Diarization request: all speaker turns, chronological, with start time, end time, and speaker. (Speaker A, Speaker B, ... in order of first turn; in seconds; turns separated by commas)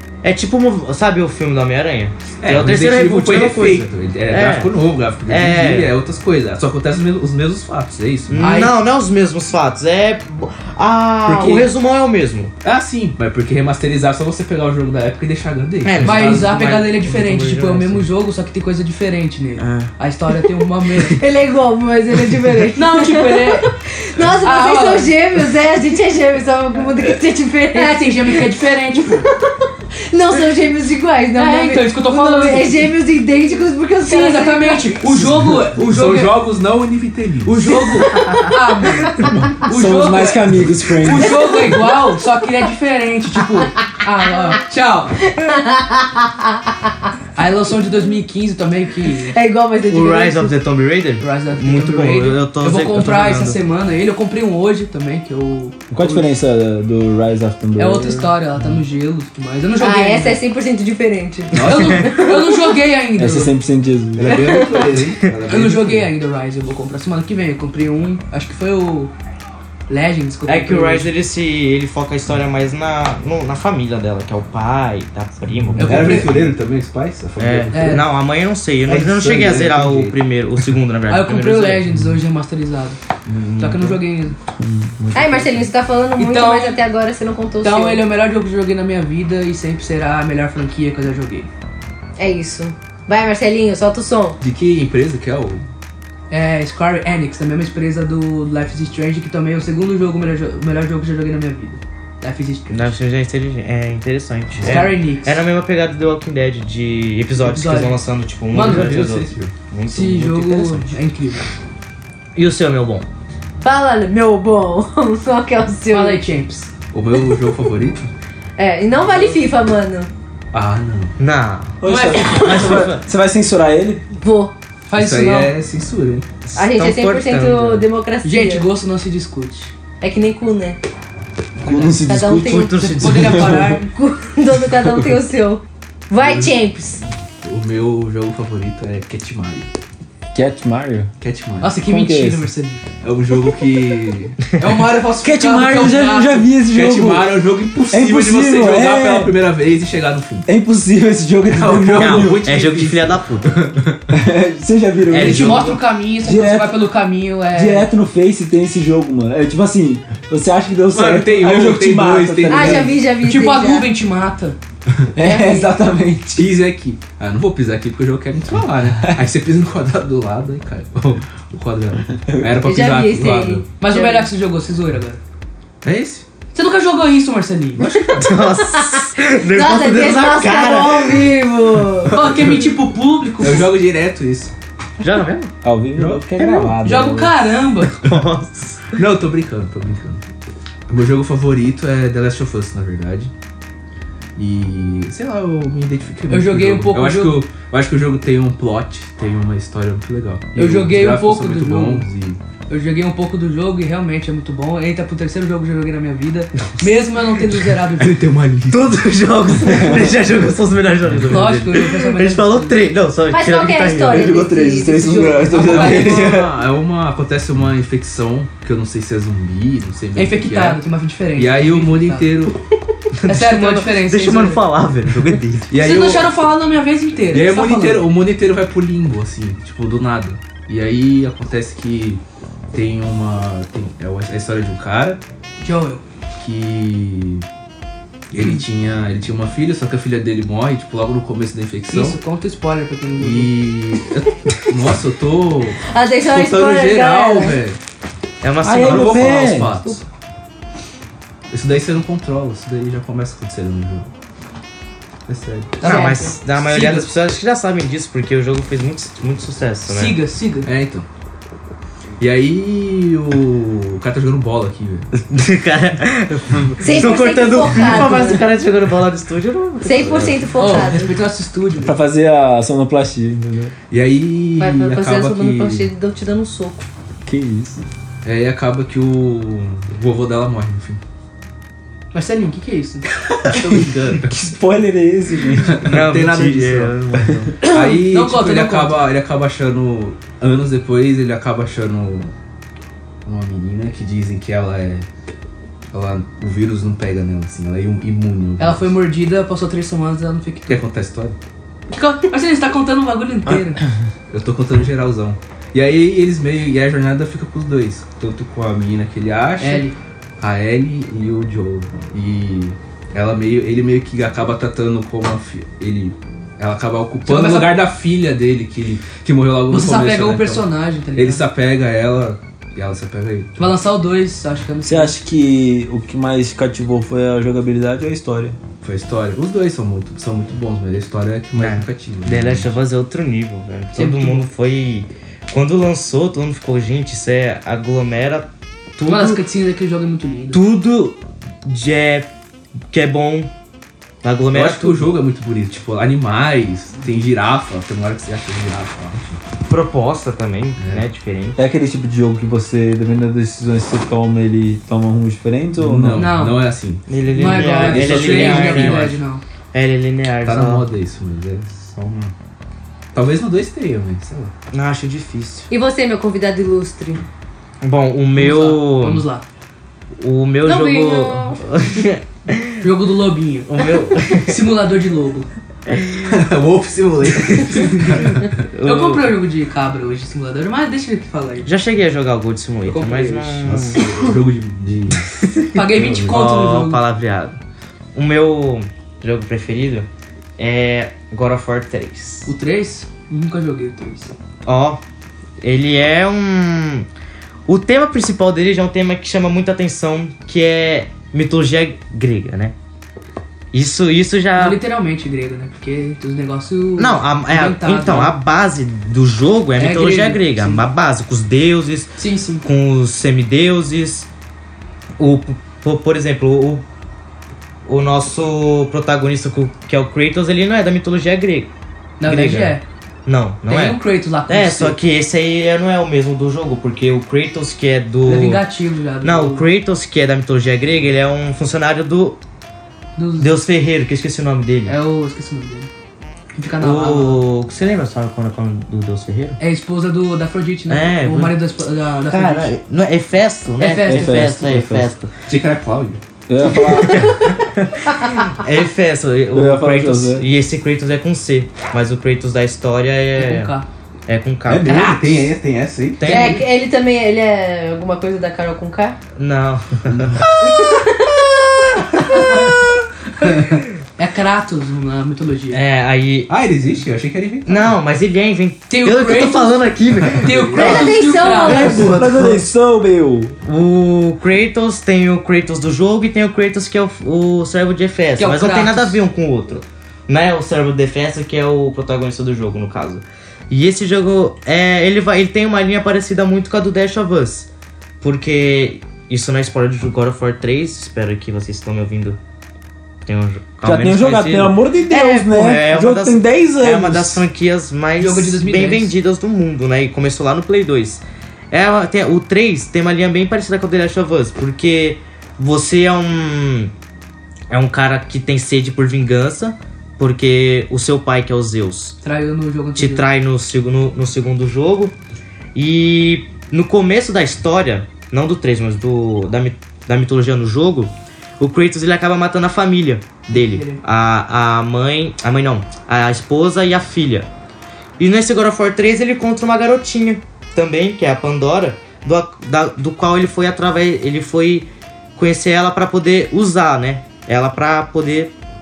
Speaker A: 0.2-4.7, Speaker B: 2.4-8.6, Speaker A: 5.3-6.0, Speaker A: 8.3-12.5, Speaker C: 8.4-8.8, Speaker B: 11.2-11.7, Speaker B: 12.6-16.7, Speaker A: 15.8-18.1, Speaker C: 16.0-21.2, Speaker A: 19.6-19.9, Speaker D: 21.0-28.6, Speaker C: 22.7-23.8, Speaker C: 24.4-25.1, Speaker C: 27.7-29.3, Speaker D: 30.1-34.9, Speaker C: 31.4-32.9, Speaker C: 34.0-36.4, Speaker B: 35.1-37.8, Speaker C: 37.5-45.2, Speaker D: 38.1-38.5, Speaker E: 39.6-41.6, Speaker D: 41.5-41.8, Speaker D: 45.2-46.9, Speaker C: 47.4-49.4, Speaker D: 49.3-50.5, Speaker A: 49.9-53.6, Speaker C: 51.2-56.3, Speaker E: 55.9-58.3, Speaker C: 57.8-60.4, Speaker D: 59.8-62.7, Speaker B: 61.5-62.1, Speaker C: 61.5-63.6, Speaker E: 63.2-64.4, Speaker B: 64.2-66.1, Speaker D: 64.3-65.0, Speaker C: 65.5-69.1, Speaker C: 69.9-71.1, Speaker A: 70.5-76.5, Speaker B: 75.8-78.1, Speaker C: 75.8-76.3, Speaker A: 77.4-81.9, Speaker C: 77.7-78.1, Speaker B: 78.9-80.2, Speaker C: 81.1-83.0, Speaker A: 83.3-84.0, Speaker C: 83.6-84.4, Speaker E: 84.6-84.9, Speaker A: 85.0-85.6, Speaker D: 85.1-88.0, Speaker C: 86.2-86.8, Speaker C: 87.6-91.5, Speaker D: 92.2-94.4, Speaker B: 94.4-95.7, Speaker C: 96.3-102.9, Speaker A: 102.7-110.9, Speaker C: 104.6-105.4, Speaker C: 107.4-109.0, Speaker B: 108.5-109.5, Speaker C: 109.9-111.5, Speaker A: 112.3-113.1, Speaker D: 113.6-116.2, Speaker C: 115.9-116.7, Speaker B: 116.9-118.1, Speaker D: 118.6-120.1, Speaker B: 120.5-121.2, Speaker A: 121.2-123.0, Speaker E: 121.8-124.0, Speaker C: 121.8-122.3, Speaker D: 124.2-124.5, Speaker C: 124.9-125.5, Speaker B: 124.9-126.3, Speaker A: 126.5-127.9, Speaker D: 126.5-128.7, Speaker C: 128.2-129.7, Speaker D: 130.0-130.8, Speaker E: 131.6-133.8, Speaker A: 131.7-133.6, Speaker D: 132.0-137.0, Speaker C: 132.8-133.9, Speaker B: 136.2-136.6, Speaker B: 137.4-139.7, Speaker E: 140.3-141.1, Speaker B: 141.2-141.8, Speaker C: 141.6-142.9, Speaker E: 141.9-142.5, Speaker B: 143.0-144.4, Speaker C: 144.5-146.5, Speaker E: 145.2-147.3, Speaker B: 146.7-150.4, Speaker E: 147.9-149.3, Speaker E: 150.4-152.5, Speaker B: 151.5-154.0, Speaker A: 151.9-153.7, Speaker E: 154.1-156.8, Speaker A: 155.1-155.8, Speaker C: 155.1-157.9, Speaker E: 157.5-162.9, Speaker B: 160.9-163.0, Speaker D: 162.5-163.9, Speaker C: 163.2-164.6, Speaker E: 165.2-166.5, Speaker D: 165.2-165.7, Speaker B: 166.3-173.7, Speaker D: 172.6-174.3, Speaker C: 173.8-175.2, Speaker B: 175.8-176.2, Speaker C: 176.5-177.9, Speaker B: 177.8-178.3, Speaker A: 178.1-181.3, Speaker D: 178.1-182.2, Speaker B: 182.1-182.7, Speaker C: 182.1-183.7, Speaker B: 183.4-184.5, Speaker A: 185.0-185.5, Speaker E: 185.6-187.4, Speaker B: 185.9-186.4, Speaker C: 186.8-188.1, Speaker A: 188.0-188.9, Speaker B: 188.9-190.2, Speaker B: 190.9-193.3, Speaker B: 194.4-202.4, Speaker C: 196.3-197.4, Speaker C: 200.6-202.1, Speaker C: 202.7-208.2, Speaker B: 208.0-209.1, Speaker A: 208.7-214.5, Speaker B: 211.0-211.7, Speaker C: 211.2-212.8, Speaker D: 213.3-216.1, Speaker E: 214.1-216.6, Speaker B: 215.5-220.8, Speaker C: 215.5-216.4, Speaker C: 220.2-222.3, Speaker B: 221.4-222.6, Speaker A: 223.2-225.8, Speaker C: 223.3-224.6, Speaker B: 225.7-226.3, Speaker C: 225.8-228.1, Speaker B: 227.3-232.2, Speaker B: 232.7-235.2, Speaker C: 235.6-236.0, Speaker B: 236.4-237.4, Speaker B: 238.3-242.2, Speaker C: 241.9-243.6, Speaker B: 243.2-247.8, Speaker D: 245.9-247.6, Speaker A: 248.4-249.6, Speaker E: 248.6-249.8, Speaker B: 248.8-250.0, Speaker B: 251.5-254.1, Speaker B: 255.3-255.8, Speaker C: 255.8-257.1, Speaker A: 255.8-260.2, Speaker D: 255.8-256.3, Speaker C: 259.9-260.7, Speaker B: 260.6-261.1, Speaker B: 262.2-265.1, Speaker A: 265.2-270.5, Speaker D: 266.8-268.5, Speaker D: 269.8-271.1, Speaker B: 270.1-270.8, Speaker C: 270.6-272.0, Speaker E: 271.8-273.7, Speaker B: 273.9-275.9, Speaker D: 274.6-276.9, Speaker E: 277.2-277.8, Speaker B: 278.2-281.0, Speaker C: 282.1-283.1, Speaker B: 283.3-284.4, Speaker E: 284.2-286.0, Speaker B: 285.6-287.0, Speaker A: 285.9-287.7, Speaker B: 287.6-292.3, Speaker C: 287.8-289.0, Speaker B: 293.2-295.1, Speaker B: 295.9-298.9, Speaker C: 298.6-300.8, Speaker B: 300.7-301.4, Speaker C: 301.9-303.8, Speaker B: 304.3-309.9, Speaker C: 309.6-310.0, Speaker B: 310.4-323.6, Speaker C: 317.2-317.8, Speaker C: 319.7-321.4, Speaker C: 323.6-325.2, Speaker E: 324.9-328.6, Speaker B: 328.8-332.7, Speaker A: 331.6-339.4, Speaker C: 333.9-334.5, Speaker C: 339.1-340.6, Speaker A: 340.5-342.3, Speaker A: 342.9-343.5, Speaker A: 344.2-345.1, Speaker B: 344.5-349.4, Speaker A: 349.7-351.6, Speaker B: 350.8-351.1, Speaker E: 351.6-356.3, Speaker B: 355.8-359.2, Speaker C: 356.1-356.6, Speaker A: 357.1-359.1, Speaker C: 357.3-359.4, Speaker A: 359.7-360.9, Speaker B: 360.4-362.3, Speaker B: 363.1-364.5, Speaker A: 364.7-365.7, Speaker D: 365.7-367.2, Speaker A: 367.8-369.3, Speaker C: 368.4-369.4, Speaker A: 370.2-372.7, Speaker D: 370.6-371.6, Speaker C: 372.8-375.5, Speaker A: 373.7-374.6, Speaker A: 375.9-376.3, Speaker B: 376.3-378.6, Speaker A: 378.7-379.3, Speaker C: 378.8-381.7, Speaker A: 381.6-384.3, Speaker C: 382.9-383.6, Speaker B: 383.6-385.3, Speaker A: 385.4-387.6, Speaker C: 385.7-387.0, Speaker A: 388.1-390.1, Speaker A: 390.6-392.5, Speaker C: 392.4-394.3, Speaker A: 394.6-395.0, Speaker A: 395.6-397.1, Speaker A: 397.7-402.7, Speaker A: 403.7-404.8, Speaker C: 404.6-408.3, Speaker A: 407.0-414.3, Speaker C: 409.8-410.8, Speaker C: 412.2-412.6, Speaker A: 415.2-416.8, Speaker A: 417.9-421.7, Speaker C: 422.2-422.8, Speaker A: 422.2-428.6, Speaker C: 423.7-425.0, Speaker C: 428.3-429.7, Speaker A: 429.2-432.4, Speaker C: 433.2-433.5, Speaker A: 433.4-434.9, Speaker C: 434.9-435.9, Speaker C: 436.6-437.4, Speaker A: 436.8-439.6, Speaker C: 439.6-442.7, Speaker A: 440.9-441.6, Speaker A: 442.3-445.3, Speaker C: 443.8-444.5, Speaker E: 444.0-445.1, Speaker B: 445.5-446.2, Speaker E: 446.5-447.3, Speaker A: 447.1-453.7, Speaker E: 449.5-450.5, Speaker C: 453.4-453.9, Speaker A: 454.3-455.5, Speaker B: 454.7-456.6, Speaker A: 456.2-456.6, Speaker D: 456.2-459.2, Speaker A: 459.4-461.1, Speaker B: 460.1-460.4, Speaker B: 463.4-463.8, Speaker C: 464.2-465.8, Speaker A: 465.7-466.5, Speaker B: 466.5-468.0, Speaker A: 467.7-472.7, Speaker C: 468.9-469.9, Speaker B: 470.3-471.0, Speaker C: 470.4-472.2, Speaker D: 470.7-472.2, Speaker E: 471.6-473.6, Speaker A: 473.6-487.7, Speaker C: 478.4-479.2, Speaker A: 488.2-492.4, Speaker A: 493.2-506.9, Speaker E: 493.8-497.4, Speaker C: 498.2-499.1, Speaker A: 507.7-512.2, Speaker C: 512.2-513.3, Speaker A: 513.0-515.1, Speaker A: 515.8-527.5, Speaker C: 523.5-524.0, Speaker A: 528.2-538.5